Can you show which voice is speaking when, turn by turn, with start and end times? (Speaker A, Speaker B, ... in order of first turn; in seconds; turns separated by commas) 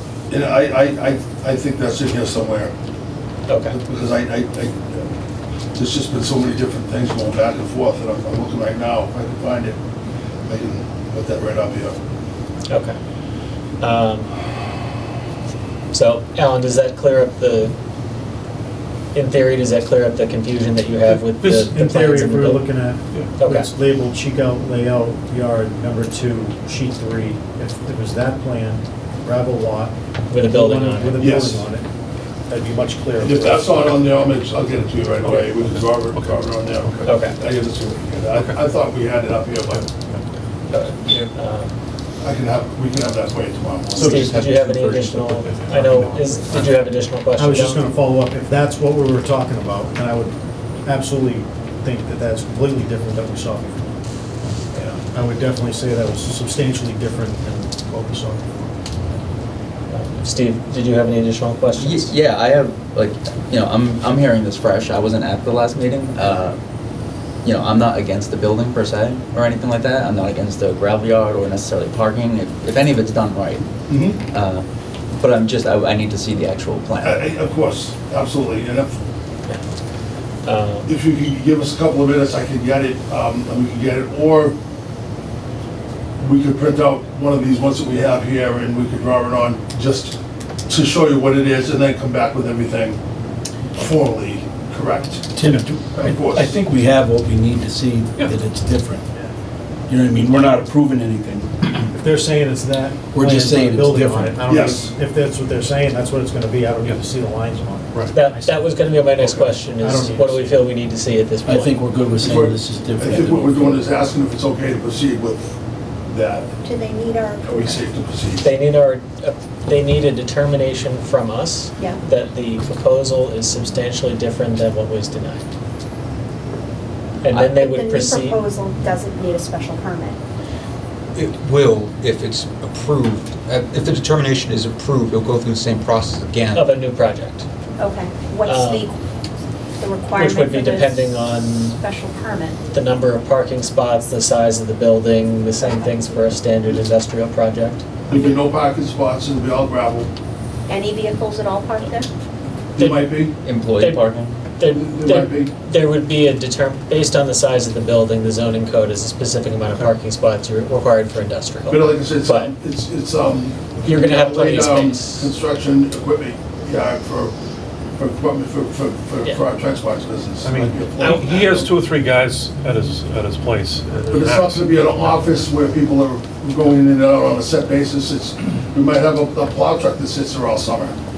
Speaker A: 0.3-2.7, Speaker B: 3.5-3.8, Speaker A: 3.7-5.0, Speaker A: 5.8-9.8, Speaker A: 10.5-12.0, Speaker B: 12.7-13.0, Speaker B: 13.8-14.3, Speaker B: 15.9-17.7, Speaker B: 19.1-22.6, Speaker C: 21.1-21.7, Speaker D: 21.6-31.9, Speaker B: 23.4-23.7, Speaker B: 30.3-31.3, Speaker A: 31.2-31.7, Speaker D: 32.5-34.0, Speaker A: 33.2-39.9, Speaker C: 35.2-37.1, Speaker B: 37.0-37.4, Speaker C: 38.3-38.6, Speaker C: 39.7-40.2, Speaker B: 40.7-41.7, Speaker A: 42.2-44.2, Speaker D: 43.9-44.4, Speaker B: 44.0-47.8, Speaker C: 44.4-46.7, Speaker D: 47.4-50.3, Speaker D: 50.9-53.9, Speaker D: 54.9-58.5, Speaker B: 59.9-62.1, Speaker E: 61.7-66.6, Speaker E: 67.4-73.6, Speaker A: 73.9-74.2, Speaker E: 74.3-74.7, Speaker E: 75.2-77.1, Speaker A: 77.0-79.0, Speaker B: 80.4-80.9, Speaker A: 80.8-84.5, Speaker A: 86.2-90.2, Speaker A: 90.7-93.0, Speaker A: 93.8-95.3, Speaker F: 95.3-99.0, Speaker A: 95.9-96.6, Speaker F: 99.9-101.9, Speaker D: 102.0-110.7, Speaker F: 103.1-104.4, Speaker A: 104.5-104.9, Speaker B: 108.1-111.8, Speaker F: 111.4-113.8, Speaker A: 112.2-115.5, Speaker A: 116.1-116.5, Speaker G: 116.6-117.8, Speaker A: 117.4-118.5, Speaker B: 118.4-125.4, Speaker B: 127.2-128.4, Speaker G: 127.3-130.2, Speaker H: 131.2-136.7, Speaker B: 136.5-137.4, Speaker G: 137.8-139.0, Speaker B: 138.5-138.9, Speaker G: 139.8-142.6, Speaker B: 140.1-141.8, Speaker B: 142.7-147.9, Speaker A: 148.1-150.1, Speaker G: 150.7-152.1, Speaker A: 152.8-153.3, Speaker B: 152.8-153.1, Speaker E: 153.4-154.3, Speaker B: 153.8-162.5, Speaker A: 154.6-155.5, Speaker A: 161.7-167.3, Speaker B: 163.8-165.3, Speaker A: 168.0-171.7, Speaker C: 170.4-175.2, Speaker B: 171.0-171.5, Speaker A: 174.1-181.0